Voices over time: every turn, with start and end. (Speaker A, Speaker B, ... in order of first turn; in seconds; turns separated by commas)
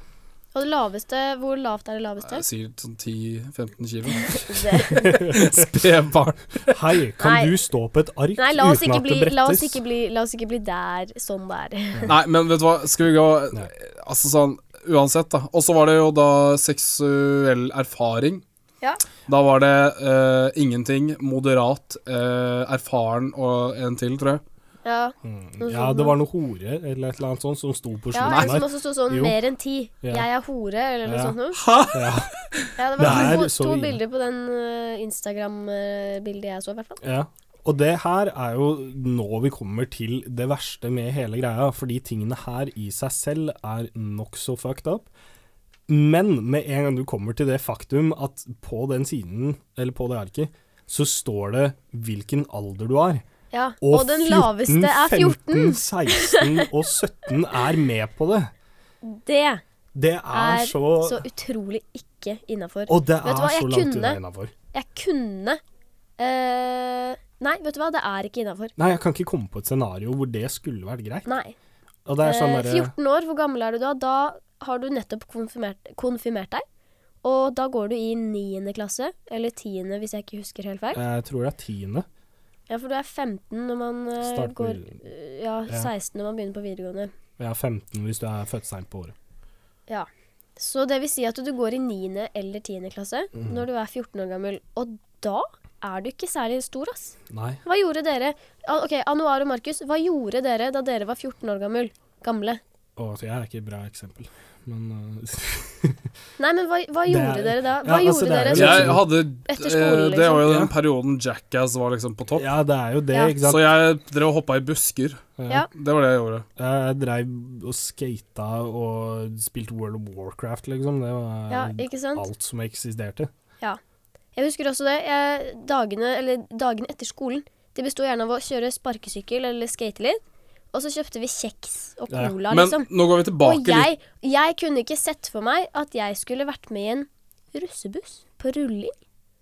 Speaker A: 0.5-2.4, Speaker B: 2.2-6.8, Speaker A: 4.2-5.3, Speaker C: 4.9-5.7, Speaker C: 6.7-9.8, Speaker A: 7.2-7.5, Speaker A: 8.4-12.1, Speaker B: 12.0-18.4, Speaker B: 19.3-24.4, Speaker A: 24.8-26.1, Speaker C: 25.2-29.4, Speaker A: 28.1-31.6, Speaker C: 31.1-31.4, Speaker B: 31.5-33.4, Speaker C: 31.9-32.3, Speaker A: 32.8-37.0, Speaker C: 33.0-34.0, Speaker C: 37.0-45.1, Speaker C: 45.9-53.2, Speaker A: 53.5-56.7, Speaker C: 53.8-58.5, Speaker A: 59.0-59.6, Speaker C: 59.9-61.2, Speaker A: 60.3-64.2, Speaker C: 62.9-64.5, Speaker A: 64.7-65.6, Speaker A: 66.2-68.7, Speaker C: 68.8-71.3, Speaker A: 71.2-71.5, Speaker C: 72.0-72.9, Speaker A: 72.2-76.6, Speaker A: 77.2-81.0, Speaker C: 80.9-82.0, Speaker A: 82.7-87.1, Speaker C: 84.2-85.0, Speaker C: 87.4-89.1, Speaker A: 89.9-102.6, Speaker C: 93.3-93.6, Speaker C: 97.3-97.6, Speaker C: 103.0-106.1, Speaker A: 106.4-110.5, Speaker C: 107.1-109.0, Speaker B: 108.5-112.5, Speaker C: 110.4-110.7, Speaker C: 112.3-113.7, Speaker B: 113.4-116.5, Speaker C: 115.4-115.7, Speaker C: 116.6-123.3, Speaker A: 121.5-122.2, Speaker A: 124.3-130.2, Speaker A: 130.7-132.9, Speaker C: 132.1-132.4, Speaker B: 132.5-133.9, Speaker A: 133.4-138.9